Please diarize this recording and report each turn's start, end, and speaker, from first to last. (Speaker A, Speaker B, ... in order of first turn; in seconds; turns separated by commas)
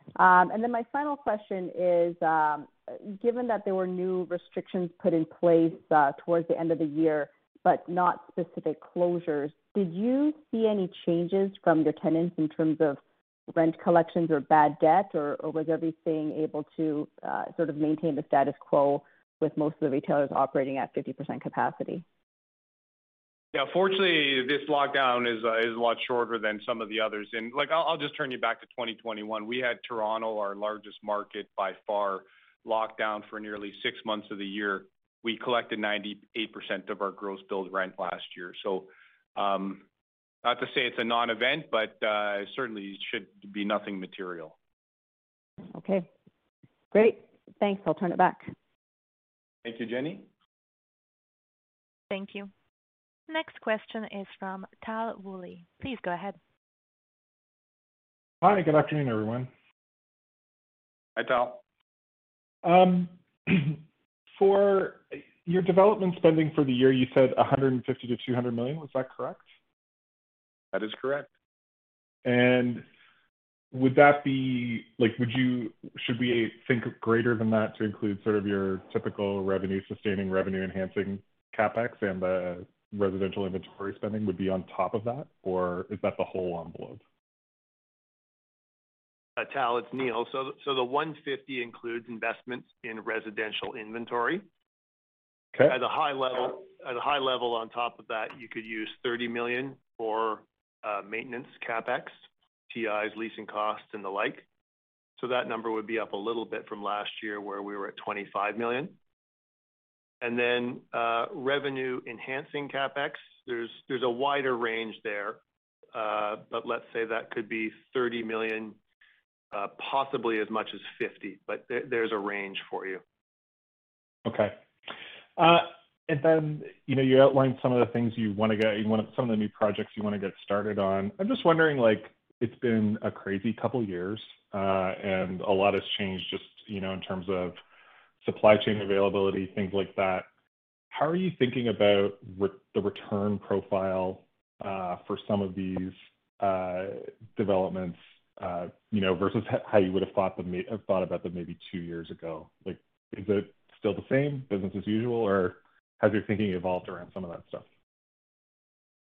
Speaker A: 0.2-13.0, Speaker A: 13.5-22.0, Speaker B: 23.5-39.8, Speaker B: 40.4-44.5, Speaker A: 45.7-46.1, Speaker A: 46.9-48.5, Speaker B: 49.6-50.2, Speaker C: 52.1-52.5, Speaker C: 53.3-56.4, Speaker D: 58.4-59.5, Speaker B: 61.1-61.6, Speaker D: 62.6-63.8, Speaker D: 64.3-69.4, Speaker B: 70.7-71.3, Speaker D: 72.2-72.8, Speaker D: 73.7-87.0, Speaker E: 89.4-94.4, Speaker E: 95.7-102.1, Speaker E: 102.7-104.5, Speaker E: 105.2-109.0, Speaker E: 110.2-115.4, Speaker E: 115.9-118.8, Speaker E: 119.5-123.0, Speaker D: 124.2-124.6, Speaker D: 125.4-137.6, Speaker D: 138.2-140.3, Speaker D: 140.9-157.7